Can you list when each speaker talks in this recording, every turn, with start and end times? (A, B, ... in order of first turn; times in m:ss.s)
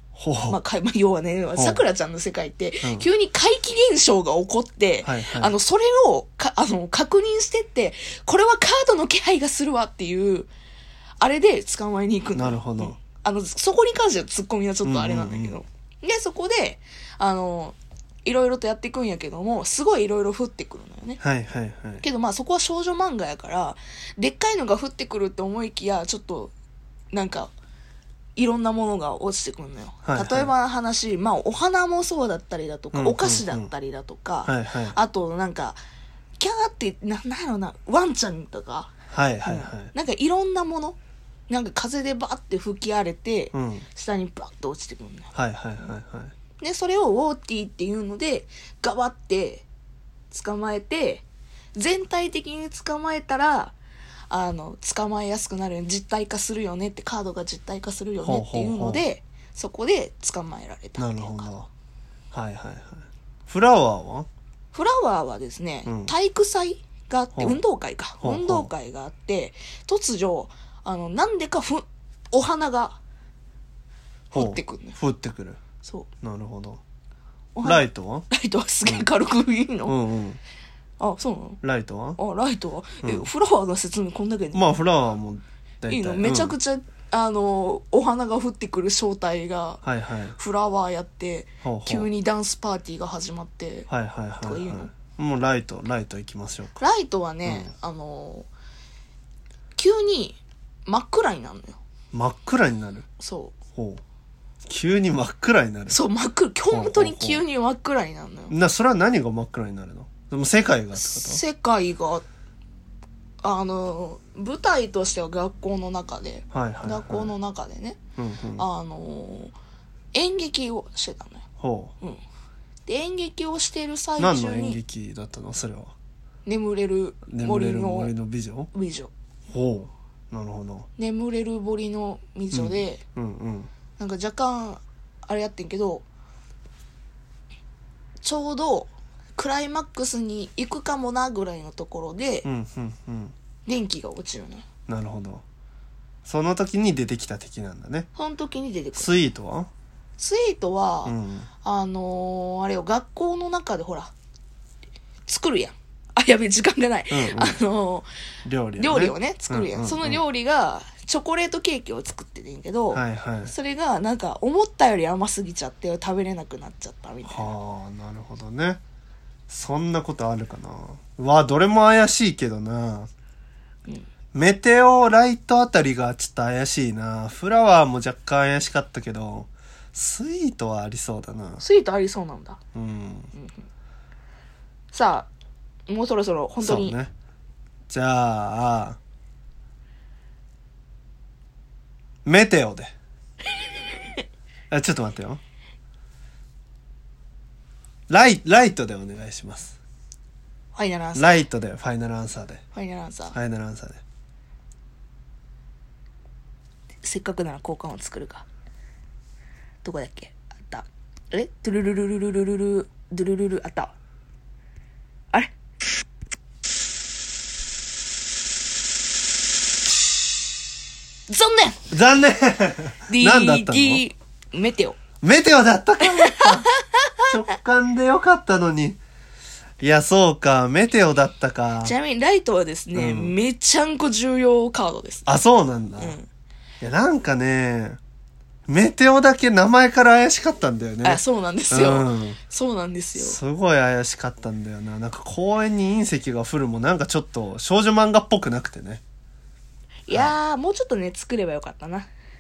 0:00.2-0:00.6 A
0:00.5-0:10.5 B
0:01.6-0:01.8 A
0:02.8-0:03.1 A
0:05.0-0:05.5 A
0:11.2-0:21.2 B
0:12.3-0:13.0 A
0:14.8-0:15.6 A
0:21.2-0:22.0 A
0:22.0-0:26.5 B
0:27.1-0:27.5 B
0:28.4-0:35.8 B
0:30.0-0:30.5 A
0:32.9-0:33.7 A
0:34.4-0:35.0 A
0:36.4-0:38.9 B
0:39.1-0:39.9 A
0:39.4-0:41.0 B
0:41.5-0:45.3 B
0:43.5-0:43.9 A
0:45.3-0:46.3 A
0:46.6-0:49.6 B
0:50.3-0:51.2 B
0:51.8-0:53.8 B
0:54.3-1:01.5 B
0:58.2-0:59.0 A
1:01.0-1:01.7 A
1:02.3-1:04.3 A
1:04.7-1:13.0 B
1:05.9-1:06.1 A
1:07.4-1:07.6 A
1:08.2-1:08.7 A
1:14.3-1:15.6 A
1:14.3-1:15.0 B
1:15.8-1:16.1 B
1:16.2-1:16.8 A
1:17.6-1:20.0 B
1:17.6-1:18.3 A
1:19.8-1:20.4 A
1:21.0-1:21.6 B
1:21.6-1:22.2 A
1:22.2-1:24.8 B
1:24.5-1:26.6 A
1:25.9-1:29.8 B
1:29.8-1:30.4 A
1:30.4-1:33.9 B
1:31.6-1:32.1 A
1:33.9-1:36.8 A
1:34.4-1:34.9 B
1:36.8-1:38.5 B
1:37.4-1:37.7 A
1:39.8-1:41.8 B
1:42.1-1:43.1 A
1:43.2-1:43.6 B
1:43.7-1:44.0 A
1:44.7-1:46.0 A
1:45.9-1:48.5 B
1:46.7-1:47.4 A
1:48.5-1:51.4 A
1:51.0-1:52.2 B
1:53.4-1:58.0 B
1:56.5-1:57.3 A
1:58.2-1:58.7 A
1:58.6-1:59.5 B
2:00.1-2:01.4 B
2:01.6-2:01.9 A
2:02.9-2:04.8 B
2:04.2-2:06.0 A
2:06.5-2:08.1 B
2:07.3-2:08.7 A
2:08.7-2:09.1 B
2:09.5-2:10.9 A
2:11.0-2:13.0 B
2:12.5-2:13.7 A
2:14.0-2:16.0 B
2:18.2-2:22.5 B
2:22.4-2:23.4 A
2:23.7-2:24.7 B
2:24.9-2:25.4 A
2:26.2-2:28.1 A
2:28.2-2:29.1 B
2:28.9-2:29.7 A
2:30.2-2:34.1 B
2:31.0-2:31.5 A
2:35.3-2:38.1 B
2:37.1-2:37.6 A
2:38.5-2:40.2 A
2:38.8-2:47.6 B
2:42.9-2:43.5 A
2:47.3-2:48.8 A
2:49.5-2:53.1 A
2:54.3-3:01.6 A
3:01.6-3:02.6 B
3:02.8-3:03.3 A
3:03.4-3:03.6 B
3:04.9-3:05.3 B
3:05.9-3:07.0 B
3:06.6-3:07.1 A
3:07.9-3:09.0 A
3:12.2-3:12.9 A
3:14.7-3:15.4 A
3:18.1-3:19.8 A
3:20.8-3:21.4 B
3:21.2-3:22.6 A
3:22.7-3:23.4 B
3:23.3-3:24.0 A
3:27.0-3:28.5 B
3:29.8-3:33.9 B
3:41.3-3:41.9 B
3:41.9-3:44.0 A
3:43.1-3:45.0 B
3:45.2-3:46.7 A
3:46.0-3:47.2 B
3:47.3-3:49.0 A
3:49.8-3:52.0 A
3:51.8-3:55.3 B
3:53.0-3:53.3 A
3:55.3-3:56.2 A
3:56.0-3:56.3 B
3:56.8-3:58.0 A
3:58.7-4:02.4 A
4:01.0-4:03.4 B
4:03.2-4:09.0 A
4:10.1-4:12.1 B